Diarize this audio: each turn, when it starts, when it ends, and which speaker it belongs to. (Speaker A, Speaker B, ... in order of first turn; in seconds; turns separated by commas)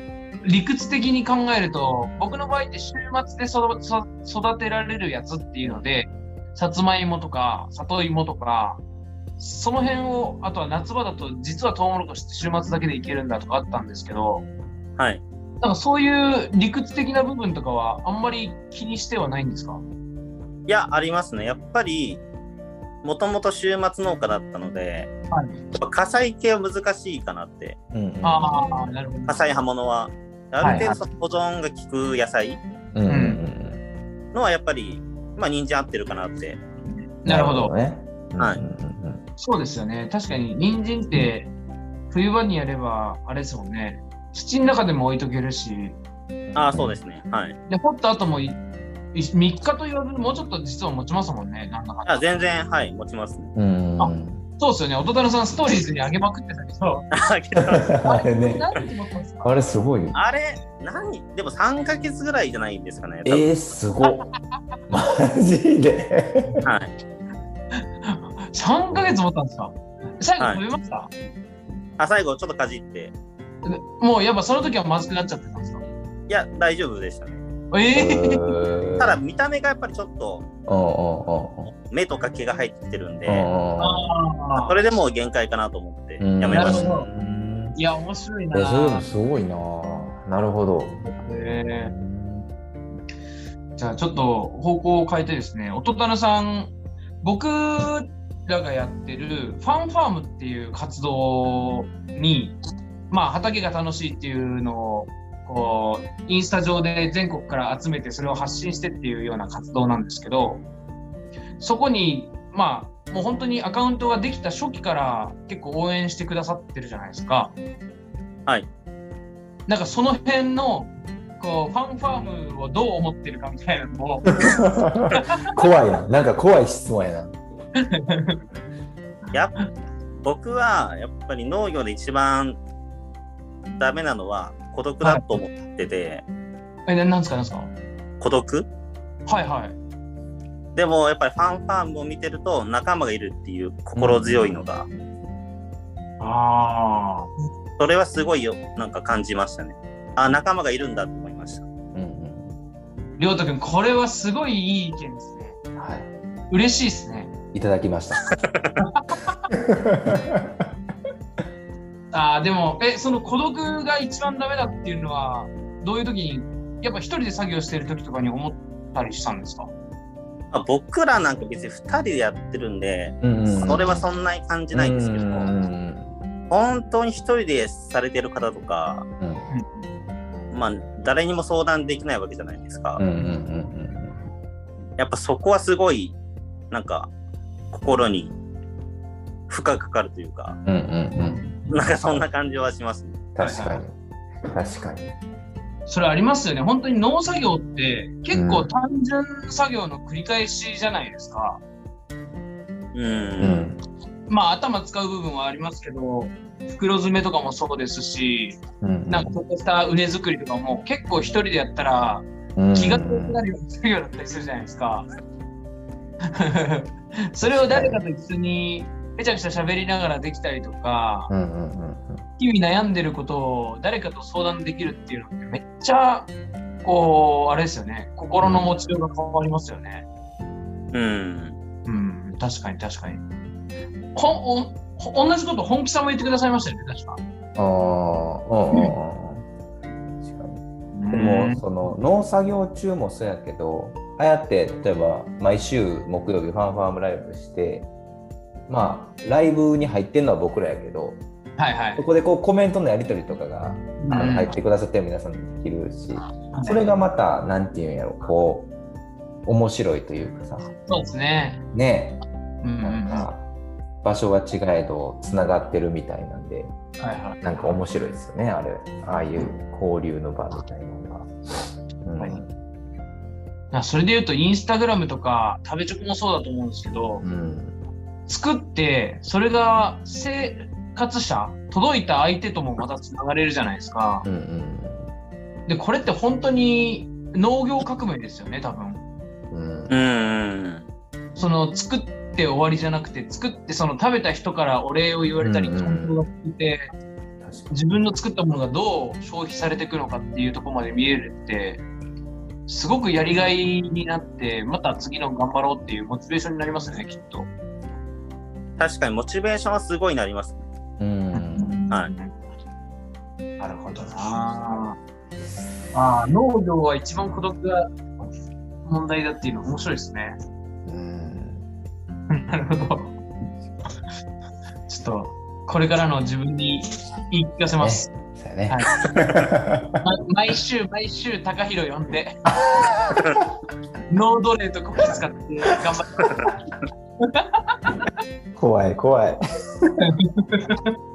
Speaker A: 0.4-8.8, Speaker B: 5.6-6.0, Speaker A: 9.4-14.5, Speaker C: 15.0-15.2, Speaker A: 15.6-19.8, Speaker C: 20.7-22.2, Speaker C: 23.0-25.1, Speaker A: 25.3-25.6, Speaker C: 25.8-27.8, Speaker B: 27.9-28.9, Speaker A: 28.2-29.5, Speaker C: 29.3-32.6, Speaker A: 30.6-30.9, Speaker B: 30.6-31.0, Speaker B: 32.9-33.8, Speaker A: 33.1-33.4, Speaker C: 34.3-36.6, Speaker A: 37.2-37.7, Speaker B: 37.2-39.2, Speaker C: 38.4-38.6, Speaker A: 39.4-41.5, Speaker A: 42.1-46.0, Speaker B: 46.5-47.0, Speaker C: 46.5-47.6, Speaker A: 47.7-48.6, Speaker A: 49.1-52.2, Speaker C: 52.0-53.5, Speaker B: 53.5-54.5, Speaker A: 54.0-57.1, Speaker C: 57.2-57.9, Speaker B: 57.7-58.7, Speaker A: 58.0-59.5, Speaker B: 59.4-60.1, Speaker C: 60.1-63.6, Speaker B: 63.2-64.3, Speaker B: 64.9-66.6, Speaker C: 66.7-66.9, Speaker A: 67.7-71.1, Speaker B: 68.9-69.2, Speaker C: 72.0-73.1, Speaker A: 73.6-75.8, Speaker C: 76.3-77.4, Speaker A: 77.7-78.5, Speaker B: 77.9-79.2, Speaker C: 79.0-80.5, Speaker B: 80.7-81.7, Speaker C: 81.7-83.5, Speaker B: 83.3-84.1, Speaker A: 83.8-84.8, Speaker C: 84.6-87.0, Speaker B: 86.2-87.8, Speaker A: 86.5-87.1, Speaker A: 87.8-89.1, Speaker B: 88.5-92.5, Speaker A: 91.0-91.9, Speaker A: 93.8-102.6, Speaker A: 103.1-110.7, Speaker A: 111.6-117.5, Speaker A: 119.7-124.4, Speaker B: 124.6-127.3, Speaker A: 127.9-128.4, Speaker C: 130.2-132.6, Speaker C: 133.8-136.2, Speaker A: 135.0-135.3, Speaker A: 136.9-137.7, Speaker C: 138.2-138.7, Speaker A: 139.3-139.8, Speaker C: 140.8-144.9, Speaker B: 143.9-145.3, Speaker A: 146.2-147.3, Speaker C: 147.8-151.7, Speaker B: 151.9-152.6, Speaker A: 153.2-155.6, Speaker B: 155.8-156.1, Speaker A: 156.5-157.3, Speaker B: 157.5-158.3, Speaker A: 158.8-159.4, Speaker B: 159.5-160.4, Speaker A: 162.1-169.7, Speaker C: 170.5-175.6, Speaker B: 173.2-174.0, Speaker B: 174.7-176.2, Speaker C: 176.5-179.1, Speaker B: 179.2-179.4, Speaker A: 179.5-179.8, Speaker C: 180.5-183.0, Speaker B: 183.0-184.2, Speaker C: 185.0-186.2, Speaker C: 186.7-187.1, Speaker C: 187.7-188.3, Speaker C: 189.5-190.6, Speaker B: 190.7-192.2, Speaker C: 191.7-193.2, Speaker B: 193.3-193.9, Speaker A: 193.4-193.8, Speaker B: 194.5-195.2, Speaker A: 195.9-201.6, Speaker B: 198.3-198.7, Speaker C: 202.9-203.6, Speaker B: 203.4-203.8, Speaker A: 204.3-215.1, Speaker B: 208.8-209.3, Speaker B: 212.6-213.4, Speaker A: 216.4-221.3, Speaker B: 217.4-218.0, Speaker B: 221.3-222.3, Speaker A: 222.4-226.3, Speaker A: 226.8-230.1, Speaker B: 228.4-228.9, Speaker C: 230.9-231.6, Speaker A: 231.9-233.2, Speaker A: 234.2-237.2, Speaker B: 237.6-239.5, Speaker B: 240.2-240.6, Speaker A: 240.9-241.6, Speaker B: 241.1-247.9, Speaker B: 248.7-251.2, Speaker A: 251.6-252.0, Speaker B: 252.0-258.7, Speaker A: 254.0-254.5, Speaker A: 256.5-257.0, Speaker B: 259.5-260.7, Speaker A: 260.9-261.6, Speaker B: 261.7-262.2, Speaker A: 262.6-263.3, Speaker B: 262.8-263.5, Speaker B: 264.0-266.8, Speaker A: 267.0-267.4, Speaker B: 267.4-271.3, Speaker B: 272.0-272.6, Speaker A: 273.7-277.2, Speaker B: 277.2-277.8, Speaker A: 278.3-284.3, Speaker B: 284.2-285.1, Speaker A: 285.7-289.0, Speaker B: 289.5-289.9, Speaker C: 289.9-290.9, Speaker A: 291.4-296.9, Speaker B: 295.4-296.2, Speaker B: 297.4-297.8, Speaker A: 297.7-301.8, Speaker A: 302.7-307.5, Speaker C: 308.8-310.6, Speaker B: 311.0-311.8, Speaker A: 311.3-312.3, Speaker A: 313.6-315.0, Speaker A: 315.9-317.9, Speaker A: 318.9-320.4, Speaker B: 320.9-321.6, Speaker A: 322.3-323.2, Speaker A: 324.9-328.1, Speaker B: 327.7-330.0, Speaker A: 330.0-332.3, Speaker B: 332.8-333.2, Speaker A: 334.1-336.3, Speaker A: 337.3-338.1, Speaker B: 338.6-339.4, Speaker A: 340.0-340.9